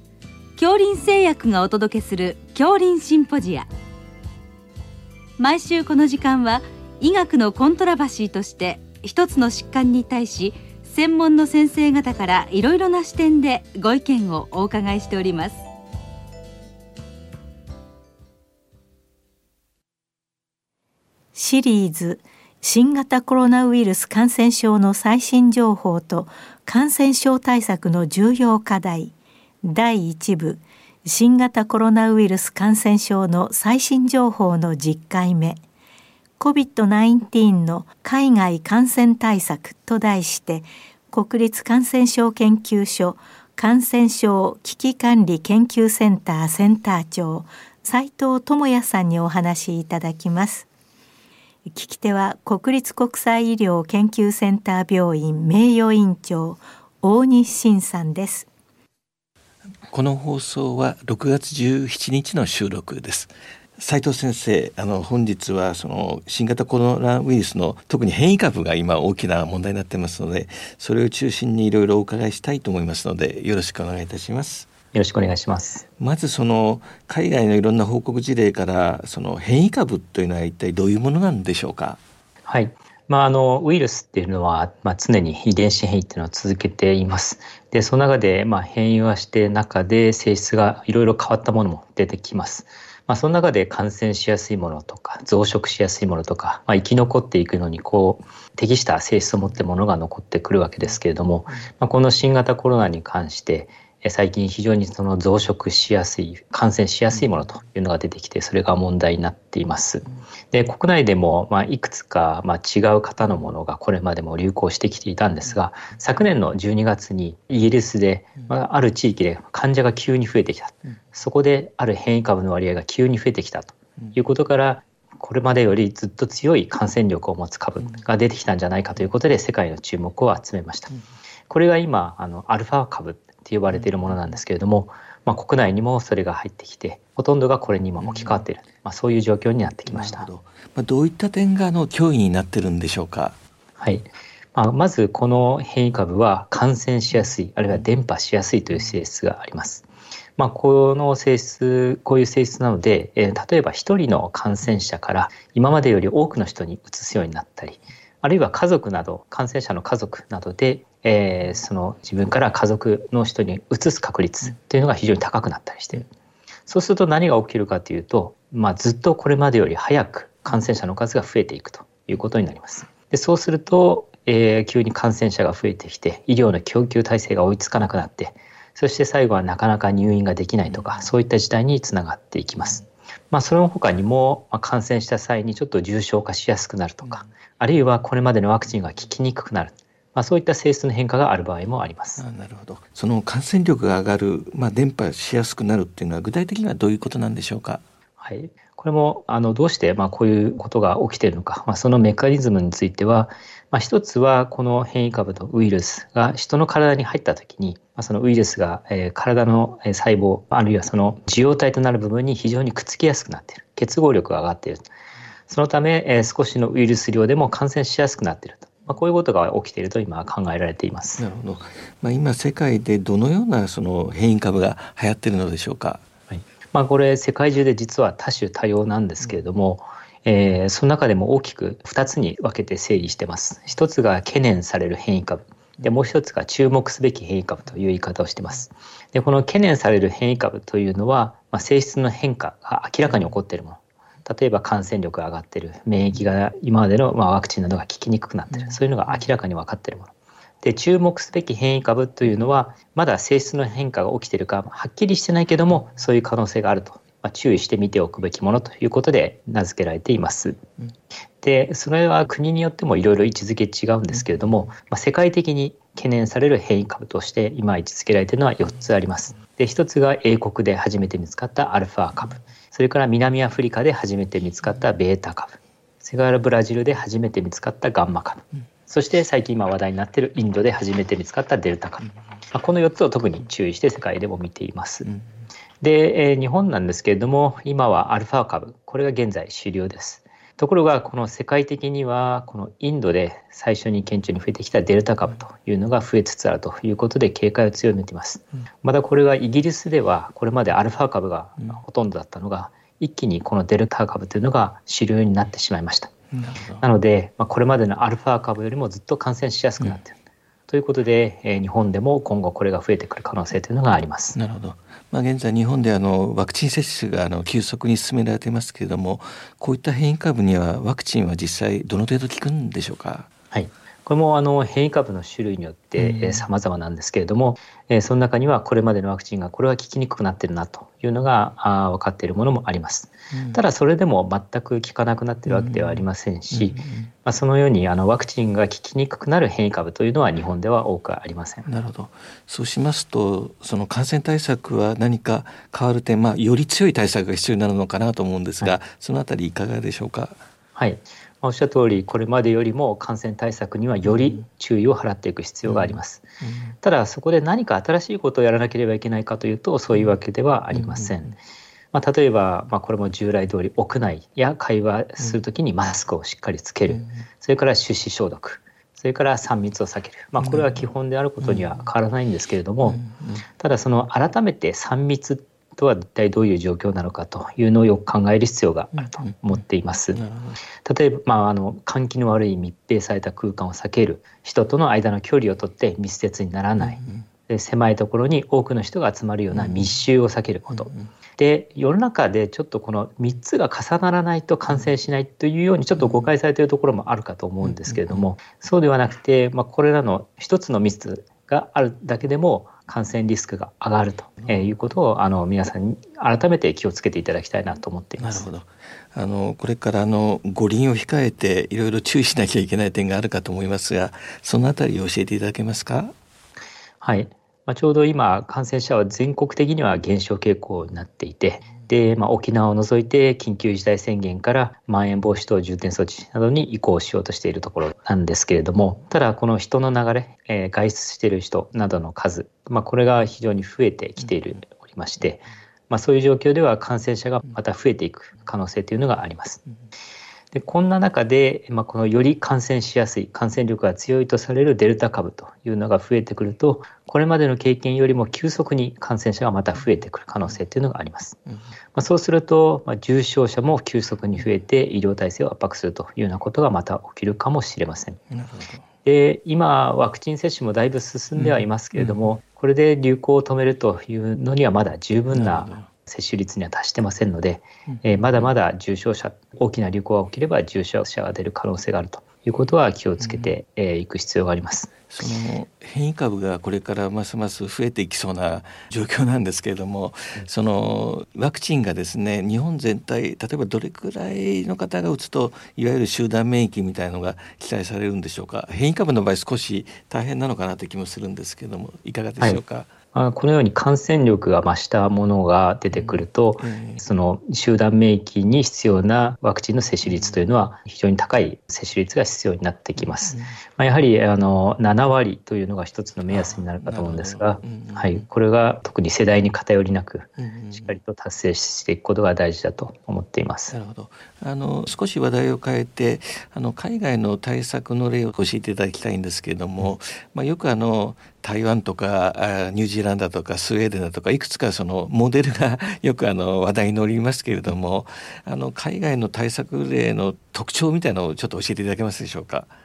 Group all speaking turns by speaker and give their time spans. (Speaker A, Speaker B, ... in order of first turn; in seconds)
Speaker A: 0.6-3.7, 5.4-15.7
Speaker B: 21.4-35.6, 36.4-50.7, 51.7-58.5
Speaker C: 59.9-74.7, 76.0-82.0, 133.7-134.3, 138.0-138.4, 139.9-143.4, 192.2-197.8, 221.2-226.0, 306.3-306.9, 314.3-323.3, 326.0-326.5, 333.3-333.6, 335.5-337.1, 341.7-350.4, 354.1-354.4, 355.6-356.8, 359.9-360.2, 360.7-361.4, 366.9-367.2, 370.4-370.8, 371.4-371.9, 372.8-373.5, 379.0-379.6, 380.1-380.6, 386.8-387.3, 389.5-389.9, 390.7-391.1, 396.0-396.3, 397.6-398.3, 404.4-404.7, 408.2-416.1, 458.3-458.9, 461.4-462.3, 465.3-465.9, 467.9-468.5, 473.2-473.6, 475.1-492.9, 495.9-497.0, 500.1-500.4, 503.0-503.6, 506.3-508.3, 510.4-511.0, 513.7-532.7
Speaker D: 74.9-75.8, 82.5-130.9, 131.5-140.3, 143.8-149.8, 150.4-166.1, 166.7-192.2, 198.2-214.8, 215.5-221.2, 226.3-250.1, 250.6-260.6, 261.4-285.1, 285.8-306.1, 306.8-310.1, 310.7-314.4, 323.5-341.7, 350.8-356.2, 356.8-361.4, 361.9-373.0, 373.6-380.2, 380.8-408.5, 417.0-439.6, 440.5-451.4, 451.9-458.2, 459.1-474.9, 493.1-513.8